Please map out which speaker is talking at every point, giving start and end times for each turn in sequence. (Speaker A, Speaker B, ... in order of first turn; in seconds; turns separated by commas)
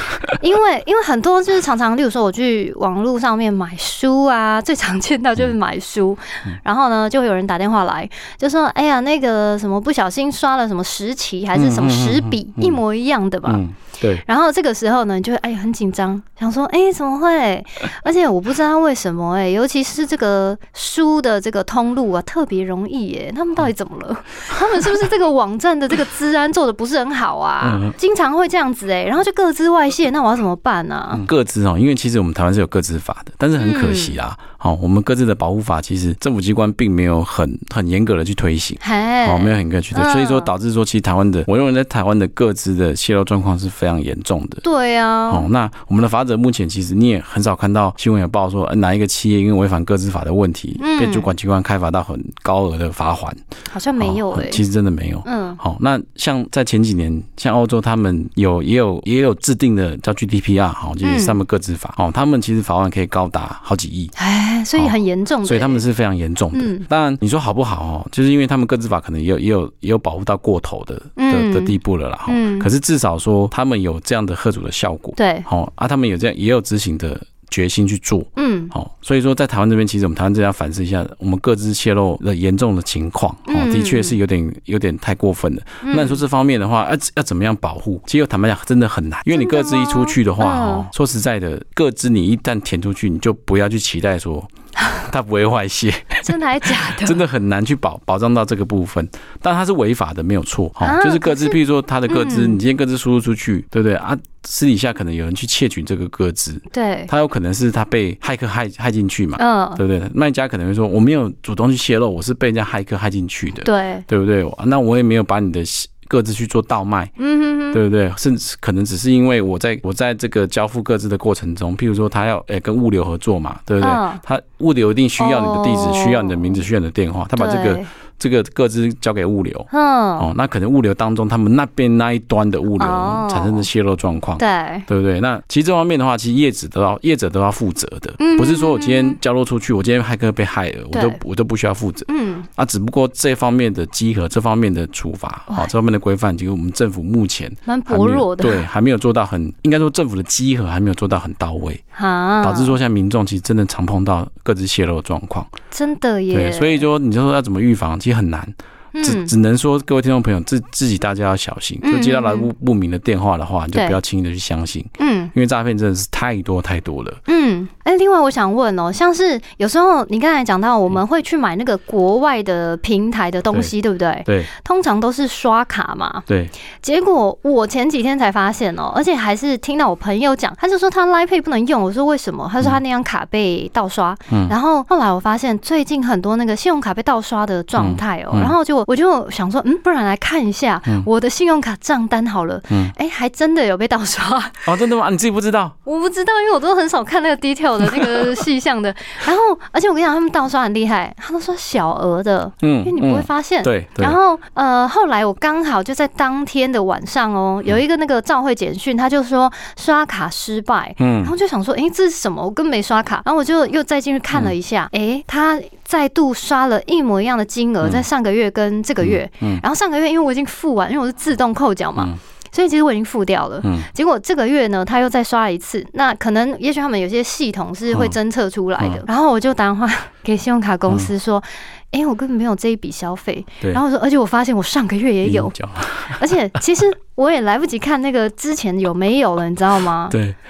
Speaker A: 0.3-13.6, Speaker B: 11.5-12.8, Speaker B: 13.4-14.2, Speaker A: 14.2-31.2, Speaker B: 27.6-27.9, Speaker B: 31.1-44.6, Speaker A: 33.6-34.2, Speaker A: 38.8-40.5, Speaker A: 44.6-45.5, Speaker B: 45.3-53.4, Speaker A: 50.8-51.3, Speaker A: 53.7-54.6, Speaker B: 54.0-64.1, Speaker A: 55.2-55.6, Speaker A: 61.0-61.4, Speaker A: 64.2-65.8, Speaker B: 64.8-96.3, Speaker A: 66.5-66.9, Speaker A: 71.2-72.7, Speaker A: 75.2-75.5, Speaker A: 78.4-78.7, Speaker A: 83.5-84.2, Speaker A: 85.8-86.2, Speaker A: 89.3-90.9, Speaker A: 96.2-97.2, Speaker B: 97.0-117.1, Speaker A: 100.8-101.6, Speaker A: 102.1-102.6, Speaker A: 106.7-107.1, Speaker A: 109.4-109.8, Speaker A: 113.6-114.0, Speaker A: 117.2-117.8, Speaker B: 117.7-151.8, Speaker A: 123.8-124.2, Speaker A: 125.2-126.6, Speaker A: 127.3-127.9, Speaker A: 129.7-130.3, Speaker A: 132.8-133.7, Speaker A: 134.4-134.9, Speaker A: 138.2-139.2, Speaker A: 140.9-141.2, Speaker A: 142.1-142.4, Speaker A: 147.7-148.6, Speaker A: 151.9-152.8, Speaker B: 152.4-155.5, Speaker A: 155.7-156.9, Speaker B: 156.3-167.2, Speaker A: 158.9-159.3, Speaker A: 161.8-162.5, Speaker A: 163.7-164.0, Speaker A: 165.0-165.3, Speaker A: 167.3-176.2, Speaker B: 176.3-176.5, Speaker A: 176.8-194.8, Speaker B: 184.3-184.5, Speaker B: 187.8-188.5, Speaker B: 192.7-192.9, Speaker B: 194.6-195.8, Speaker A: 195.8-240.2, Speaker B: 197.9-198.4, Speaker B: 202.6-204.2, Speaker B: 211.0-211.3, Speaker B: 217.8-218.1, Speaker B: 219.0-219.6, Speaker B: 223.6-223.9, Speaker B: 227.9-228.2, Speaker B: 235.2-236.2, Speaker B: 240.1-240.4